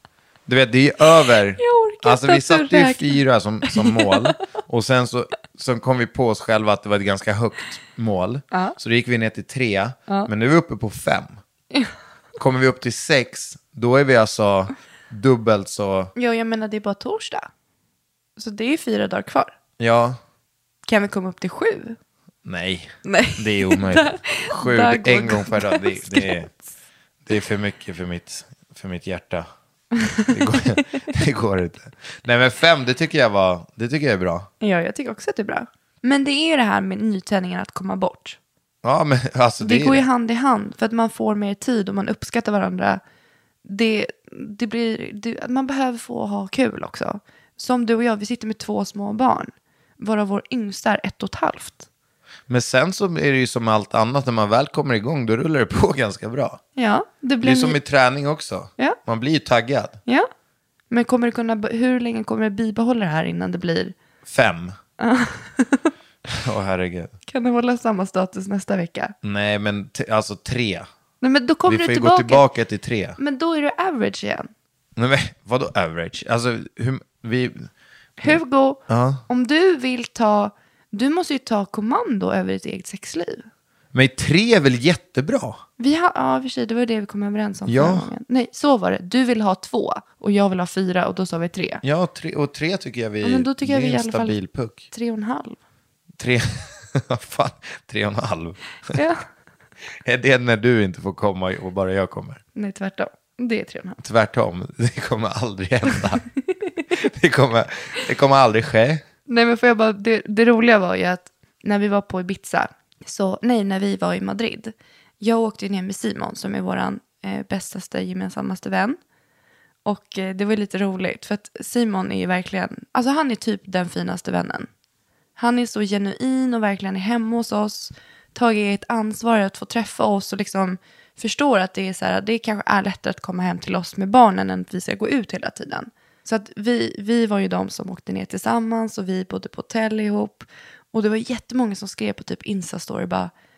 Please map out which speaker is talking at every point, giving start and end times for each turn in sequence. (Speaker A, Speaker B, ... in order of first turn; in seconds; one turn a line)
Speaker A: 0.5-11.4
Speaker B: 1.6-4.2
Speaker A: 12.4-16.1
Speaker B: 16.1-17.5
Speaker B: 18.4-19.5
Speaker A: 19.8-20.2
Speaker B: 20.9-22.0
Speaker A: 22.4-26.5
Speaker B: 23.1-26.6
Speaker A: 27.2-29.5
Speaker B: 30.1-30.6
Speaker A: 30.3-34.5
Speaker B: 34.6-38.4
Speaker A: 38.8-40.0
Speaker B: 39.6-43.0
Speaker B: 43.6-51.9
Speaker A: 52.5-56.6
Speaker B: 56.8-57.8
Speaker A: 57.4-60.0
Speaker B: 60.9-63.9
Speaker A: 64.3-64.8
Speaker B: 65.0-65.9
Speaker A: 66.3-67.1
Speaker B: 67.3-69.2
Speaker A: 69.2-70.9
Speaker B: 71.2-72.5
Speaker A: 71.7-73.2
Speaker B: 73.2-74.5
Speaker A: 75.0-77.7
Speaker B: 78.2-83.5
Speaker A: 78.2-79.2
Speaker A: 83.9-85.6
Speaker B: 85.8-91.8
Speaker A: 87.7-88.1
Speaker A: 91.8-94.8
Speaker B: 93.2-94.4
Speaker B: 94.9-95.6
Speaker A: 96.2-99.0
Speaker B: 98.9-99.2
Speaker A: 99.9-102.4
Speaker B: 102.5-104.0
Speaker A: 104.0-106.2
Speaker A: 106.9-109.0
Speaker B: 109.3-119.0
Speaker B: 119.8-124.7
Speaker B: 125.4-143.3